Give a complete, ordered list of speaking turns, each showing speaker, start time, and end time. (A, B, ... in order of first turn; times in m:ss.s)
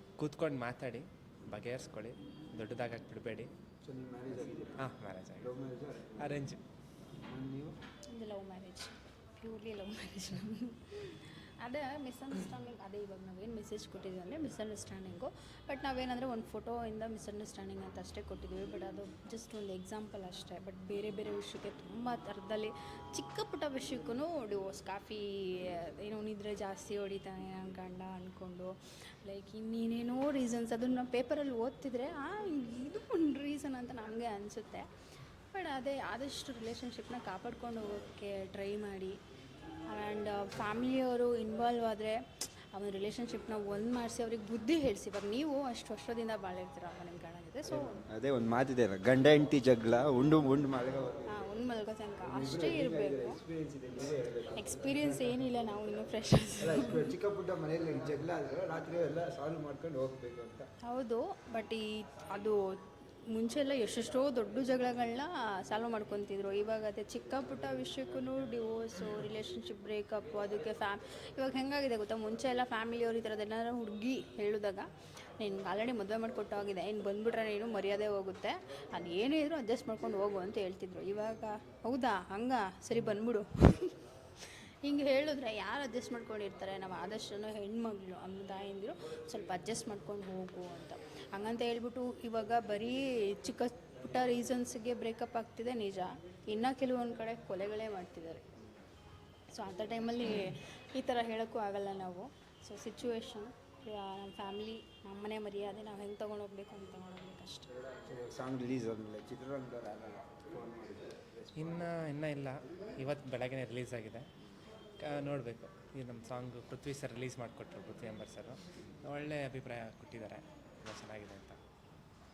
0:00.2-0:03.5 A
0:03.8-0:06.5 B
0:04.8-0:05.5 A
0:06.2-0:06.6 A
0:07.1-0:07.8 B
0:08.1-0:34.9 C
0:35.5-0:39.2 C
0:39.9-0:48.0 C
0:47.6-0:51.6 B
0:51.3-0:53.4 C
0:52.2-0:55.4 B
0:54.6-0:57.1 C
0:56.6-1:00.7 B
1:00.8-1:02.6 C
1:03.3-1:14.9 C
1:15.4-1:38.4 C
1:39.5-1:47.7 C
1:48.0-1:52.0 B
1:51.6-1:54.3 A
1:55.0-2:01.6 A